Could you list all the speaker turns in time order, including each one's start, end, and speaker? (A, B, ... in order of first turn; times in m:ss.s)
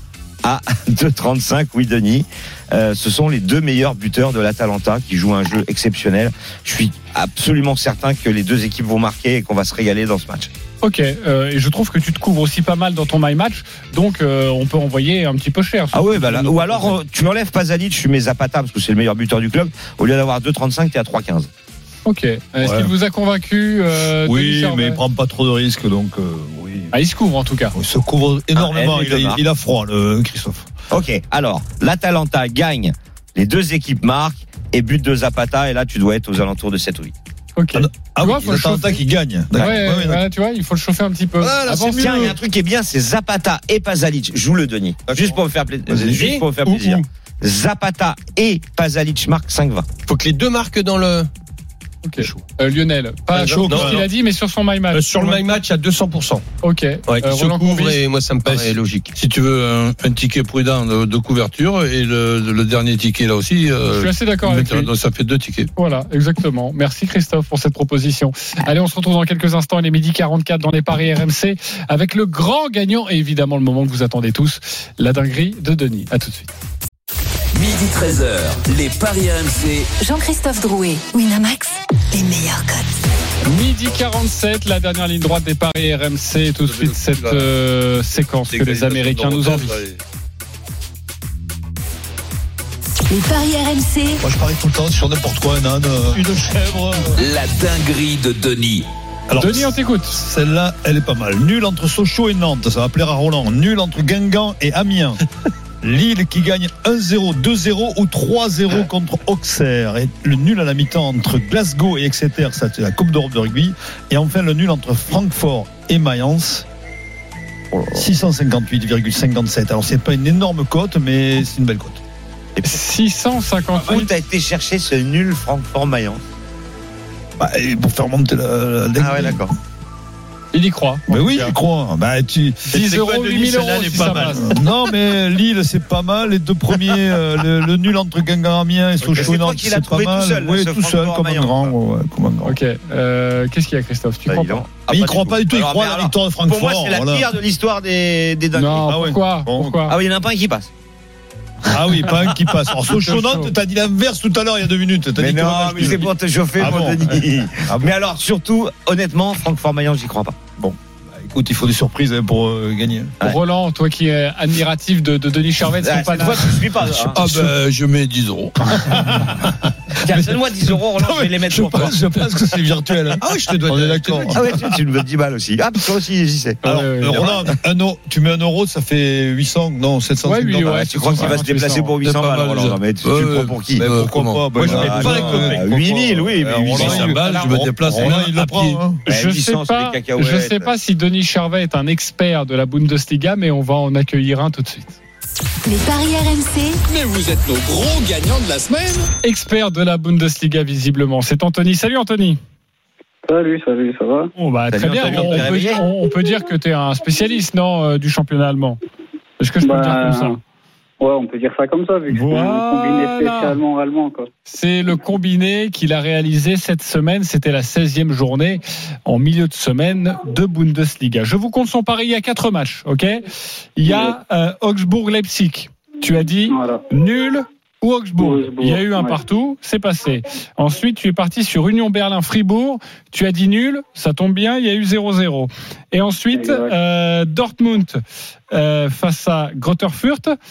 0:00.4-0:10.5 A
0:10.8-0:17.0 B
0:15.9-0:21.5 A
0:22.1-0:25.0 B
0:22.6-0:22.9 C
0:24.2-0:26.9 D
0:26.9-0:27.8 B
0:27.8-0:30.7 D
0:28.6-0:29.4 A
0:30.9-0:37.1 A
0:37.6-0:39.0 B
0:37.8-0:40.2 D
0:39.5-0:42.3 B
0:41.4-0:42.3 D
0:41.8-0:49.9 A
0:45.1-0:45.4 D
0:45.9-0:46.3 D
0:46.2-0:47.0 E
0:50.1-0:51.3 E
0:52.0-0:55.4 B
0:53.3-0:54.1 D
0:53.5-0:54.0 E
0:54.9-0:56.4 E
0:56.6-0:58.0 B
0:57.1-0:59.1 E
0:58.5-1:05.7 C
1:03.9-1:04.9 B
1:05.8-1:16.5 B
1:17.5-1:19.9 F
1:20.0-1:23.0 G
1:23.5-1:29.8 B
1:26.7-1:27.5 C
1:28.5-1:30.0 C
1:33.1-1:34.2 G
1:34.2-1:37.2 D
1:37.2-1:38.9 F
1:39.3-1:45.2 D
1:39.4-1:40.2 B
1:45.8-1:56.6 D
1:57.7-1:58.1 A
1:57.9-2:02.0 D
2:02.6-2:04.1 B
2:03.8-2:06.2 A
2:07.4-2:09.5 D
2:09.0-2:09.5 A
2:10.5-2:11.6 B
2:11.1-2:12.8 D
2:12.7-2:14.5 B
2:12.7-2:14.6 E
2:13.9-2:22.6 D
2:19.0-2:21.8 A
2:22.4-2:24.7 B
2:24.3-2:28.9 A
2:24.9-2:27.3 D
2:28.5-2:30.0 B
2:28.8-2:29.8 D
2:29.9-2:30.7 A
2:31.7-2:37.9 D
2:32.9-2:33.5 B
2:35.2-2:40.6 A
2:40.6-2:43.2 D
2:43.2-2:46.6 B
2:45.8-2:47.2 A
2:47.1-2:47.6 D
2:47.1-2:49.7 C
2:48.8-2:49.5 D
2:50.0-2:54.6 D
2:50.0-2:52.0 A
2:53.2-2:54.6 E
2:54.3-2:56.6 A
2:56.6-2:57.3 B
2:56.6-3:01.4 D
3:00.2-3:02.0 B
3:00.6-3:03.9 A
3:02.0-3:04.9 C
3:03.8-3:09.0 D
3:04.6-3:07.2 A
3:04.6-3:05.4 B
3:04.9-3:05.7 E
3:06.7-3:07.5 B
3:06.8-3:08.8 C
3:09.0-3:15.0 B
3:09.1-3:10.8 A
3:15.6-3:16.9 G
3:16.9-3:19.1 F
3:19.2-3:22.4 B
3:23.2-3:24.3 H
3:24.4-3:28.8 B
3:24.7-3:25.8 A
3:29.4-3:30.4 B
3:29.6-3:30.4 H
3:31.0-3:34.3 H
3:32.1-3:33.6 B
3:34.5-3:43.2 B
3:43.8-4:00.4 B
3:43.9-3:44.2 H
3:46.5-3:46.9 H
3:48.2-3:49.2 H
3:56.3-3:56.7 H